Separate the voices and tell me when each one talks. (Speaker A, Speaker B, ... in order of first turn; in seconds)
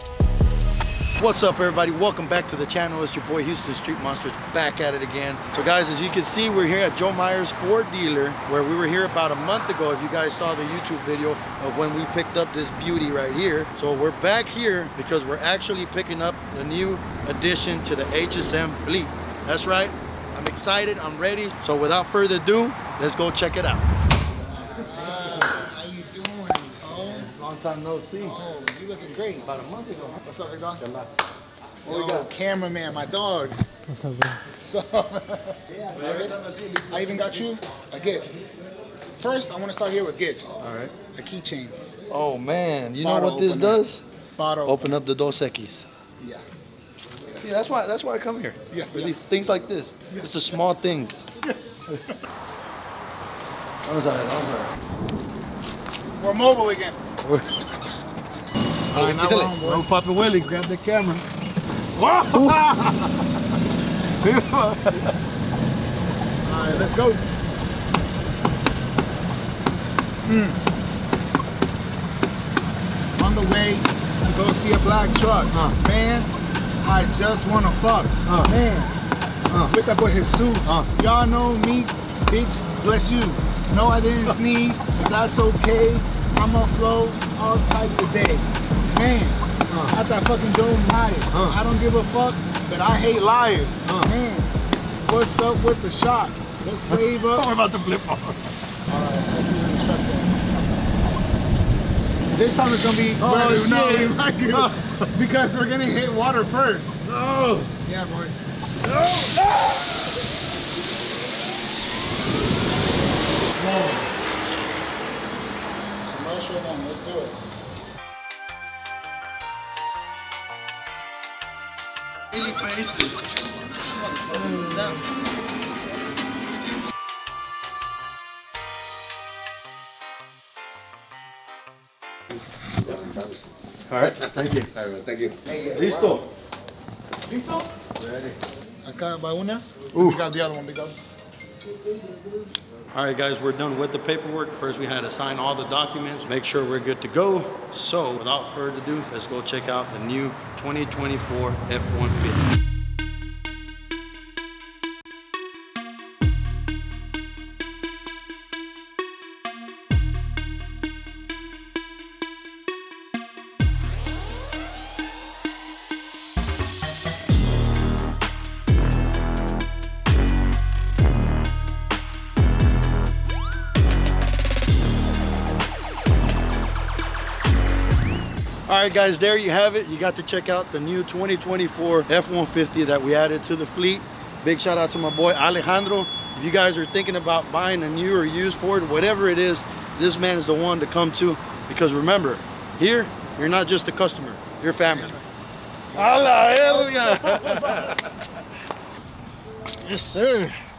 Speaker A: 1.2-23.9, 25.0-25.4, 27.1-28.4, 29.4-30.2, 30.8-31.1, 31.8-32.3, 35.8-37.5, 40.6-40.9, 42.1-44.0, 44.6-45.9, 47.4-51.2, 53.8-54.7, 57.2-57.6, 58.9-61.2, 61.9-63.1, 64.2-65.1, 78.2-78.5, 89.7-89.9, 91.3-91.5, 93.8-94.1, 96.9-98.4, 103.2-105.1, 107.0-107.7, 108.8-109.8, 122.3-123.2, 124.2-125.0, 133.9-134.8, 135.4-136.3, 138.0-138.3, 139.9-140.2, 142.9-152.4, 178.7-195.2, 195.9-198.2, 199.8-200.6
Speaker B: 24.6-27.3, 28.2-29.5, 30.2-30.8, 31.8-33.6, 34.5-38.3, 39.2-41.8, 43.0-43.8, 44.4-45.0, 48.7-49.1, 56.2-57.0, 58.9-59.9, 66.4-67.2, 70.2-70.6, 73.2-79.0, 79.7-94.5, 95.0-97.5, 98.9-100.4, 102.3-107.0, 107.8-108.5, 113.5-114.1, 116.0-117.4, 123.9-124.9, 137.3-137.6, 138.8-141.0, 196.0-197.9